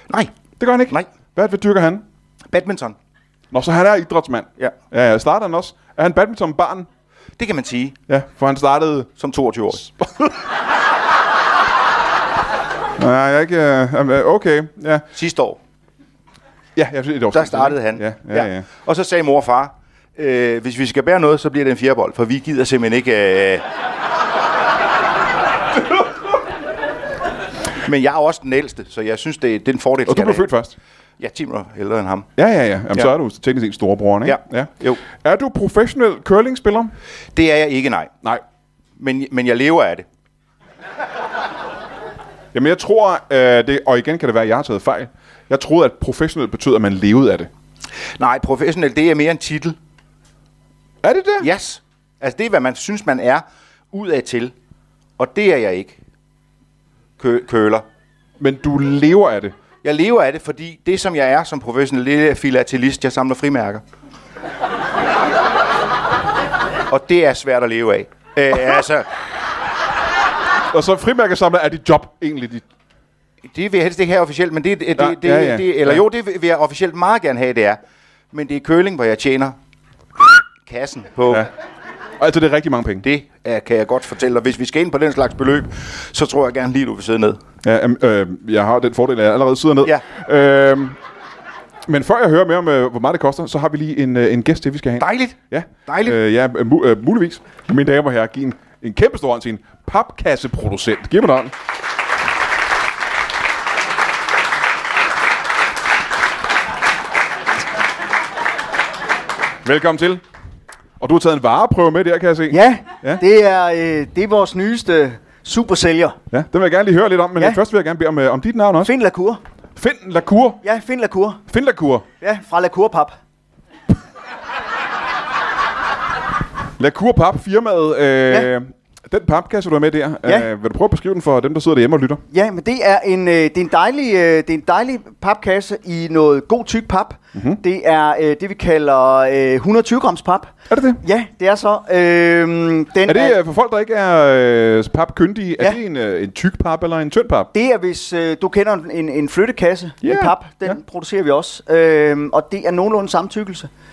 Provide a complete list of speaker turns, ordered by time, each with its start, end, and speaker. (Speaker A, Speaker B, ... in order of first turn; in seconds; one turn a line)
Speaker A: 0.1-0.3
Speaker B: 0.6-2.0
Speaker A: 2.5-3.0
Speaker B: 3.5-6.9
Speaker A: 7.4-8.0
Speaker B: 8.1-9.1
Speaker A: 9.2-9.9
Speaker B: 10.0-10.3
Speaker B: 13.0-15.1
Speaker A: 15.1-15.6
Speaker B: 16.8-18.7
Speaker A: 17.3-23.6
Speaker A: 27.8-30.5
Speaker B: 30.1-30.8
Speaker A: 31.2-32.3
Speaker B: 32.4-36.9
Speaker A: 34.2-35.0
Speaker A: 37.3-38.1
Speaker A: 39.0-40.0
Speaker B: 42.5-47.5
Speaker A: 48.2-49.8
Speaker B: 51.0-51.5
Speaker A: 51.4-54.5
Speaker A: 55.2-56.0
Speaker A: 57.2-57.9
Speaker B: 58.4-59.5
Speaker A: 59.8-63.8
Speaker A: 66.9-69.1
Speaker B: 70.7-72.6
Speaker A: 73.4-77.8
Speaker B: 75.0-76.0
Speaker A: 78.3-79.5
Speaker A: 80.6-81.5
Speaker B: 82.2-83.0
Speaker A: 83.0-87.4
Speaker B: 87.6-91.0
Speaker B: 91.9-101.5
Speaker A: 95.0-96.2
Speaker B: 109.6-110.2
Speaker B: 111.0-113.2
Speaker C: 112.5-116.2
Speaker B: 116.3-118.9
Speaker C: 118.8-119.4
Speaker B: 119.8-120.6
Speaker C: 120.6-121.4
Speaker B: 121.5-122.0
Speaker C: 122.2-123.2
Speaker B: 126.8-132.2
Speaker C: 132.3-143.4
Speaker B: 137.3-137.6
Speaker B: 140.7-141.0
Speaker B: 143.1-147.5
Speaker C: 147.5-153.7
Speaker B: 150.0-150.8